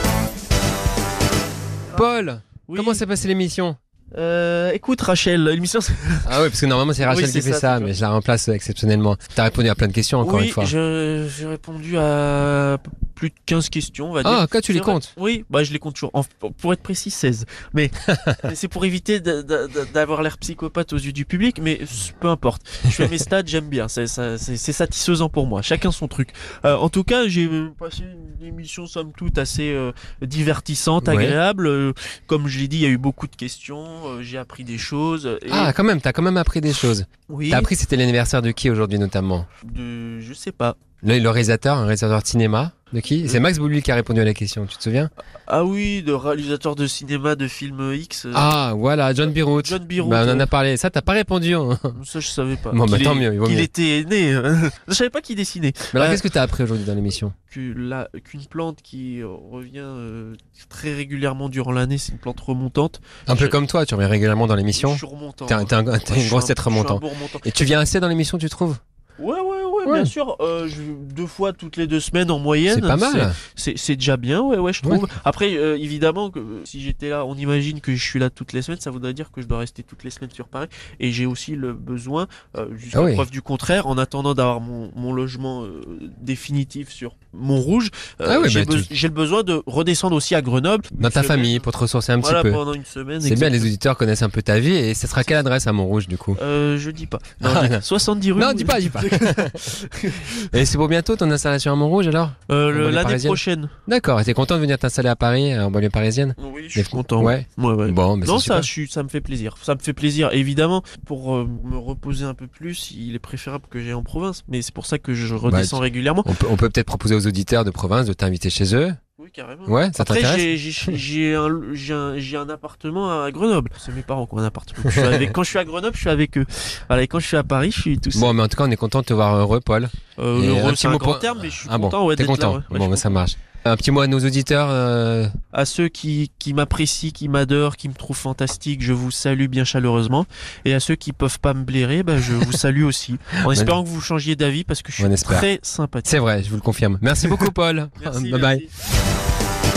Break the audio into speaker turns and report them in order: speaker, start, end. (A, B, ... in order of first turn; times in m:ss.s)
0:01.9-0:03.8 A
0:02.7-0:03.0 B
0:04.1-0:06.4 B
0:06.2-0:10.7 A
0:07.0-0:07.9 B
0:10.2-0:35.7 B
0:14.2-0:15.1 A
0:18.1-0:18.4 A
0:31.0-0:31.4 A
0:35.5-0:39.5 A
0:37.3-0:37.7 B
0:39.6-0:40.8 B
0:41.0-0:45.1 A
0:45.5-0:48.5 B
0:48.3-0:52.0 A
0:49.6-0:50.5 B
0:52.0-0:56.2 B
0:52.7-0:53.7 A
0:55.9-0:57.3 A
0:57.5-1:03.6 B
1:03.3-1:08.8 A
1:04.7-1:07.8 B
1:09.2-1:31.7 B
1:09.9-1:10.1 A
1:12.7-1:13.4 A
1:22.9-1:23.3 A
1:28.3-1:28.9 A
1:31.0-1:32.6 A
1:32.2-1:33.7 B
1:33.2-1:36.4 A
1:35.2-1:35.4 B
1:36.4-1:40.3 B
1:37.4-1:37.8 A
1:38.4-1:39.7 A
1:40.5-1:48.7 A
1:42.5-1:43.7 B
1:46.4-1:56.3 B
1:55.4-1:59.0 A
1:59.2-2:08.3 B
1:59.7-2:01.0 A
2:04.9-2:05.3 A
2:08.1-2:15.3 A
2:10.2-2:13.2 B
2:15.5-2:26.2 B
2:23.5-2:23.8 A
2:25.0-2:25.5 A
2:26.0-2:28.6 A
2:28.0-2:28.7 B